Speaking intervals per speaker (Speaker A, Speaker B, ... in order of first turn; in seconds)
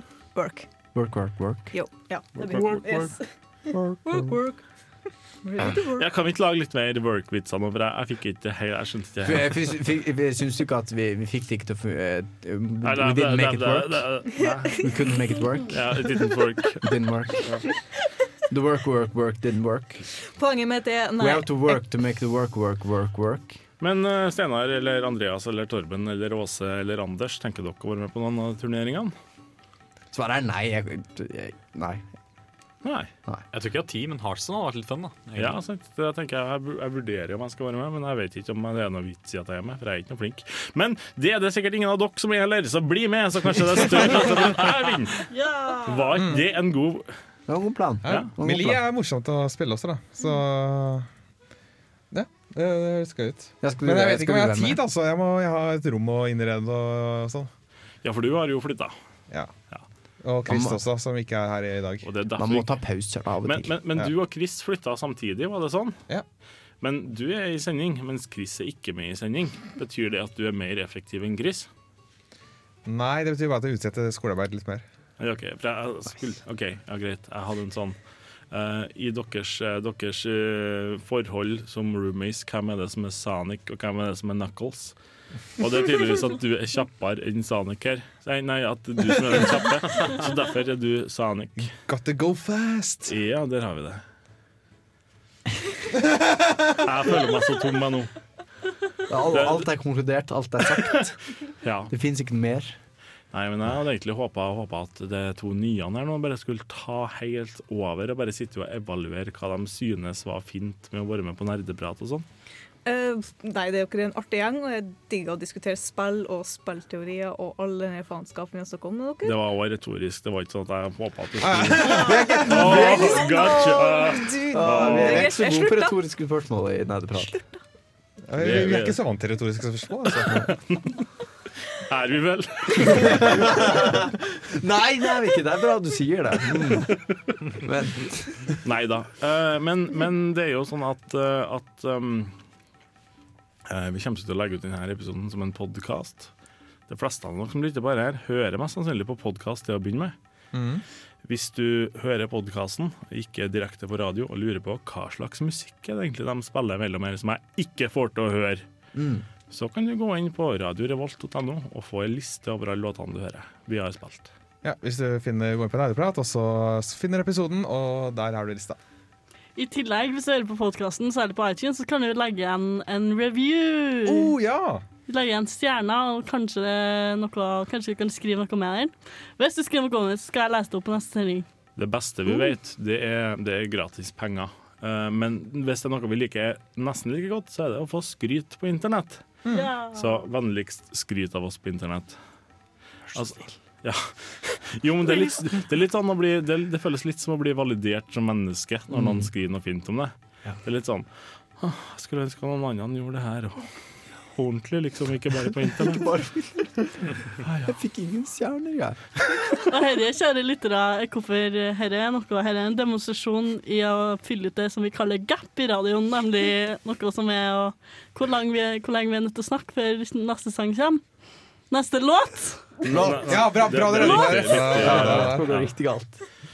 Speaker A: 0.3-0.7, 1.7-6.1, 20.4-21.8, 112.8-119.4, 121.8-126.0
Speaker B: 0.9-3.1, 3.7-4.4, 9.2-16.2, 16.8-17.6, 18.5-20.1, 21.2-23.6, 30.1-32.1, 47.5-48.8, 53.6-54.8, 60.5-60.8, 62.4-63.8, 99.1-101.2, 101.9-102.8, 121.7-123.5, 124.5-127.4, 133.0-137.0, 137.6-138.5, 159.0-159.2, 193.1-193.5, 198.9-199.3, 205.8-207.1, 207.6-209.6, 222.9-226.2
Speaker C: 2.5-2.7, 48.0-51.1, 52.1-57.5, 59.3-59.5, 60.2-62.1, 72.8-74.8, 91.9-93.1, 121.4-122.7, 124.6-125.1, 128.3-130.4, 150.5-150.8, 164.6-168.8, 174.1-174.8, 189.4-189.7, 223.2-225.5
Speaker D: 5.9-9.6, 12.8-15.1, 15.7-17.7, 23.8-29.1, 32.8-33.1, 35.4-45.2, 45.9-47.1, 58.0-58.9, 62.0-62.7, 63.4-66.0, 66.8-71.7, 75.2-78.0, 78.5-85.0, 85.6-91.7, 93.1-94.0, 96.8-98.1, 99.3-99.7, 101.6-101.9, 103.3-112.2, 119.2-125.3, 128.4-129.0, 130.2-131.0, 131.8-133.5, 138.6-142.3, 143.7-146.3, 146.9-150.1, 151.2-158.6, 159.5-164.3, 181.8-189.2, 189.9-192.2, 193.2-200.1, 200.6-201.1, 201.6-203.7, 204.3-206.1, 222.8-225.7
Speaker E: 33.5-35.6
Speaker F: 45.3-46.3, 169.6-174.3, 175.1-181.5, 189.5-190.3, 209.7-221.0, 221.7-222.7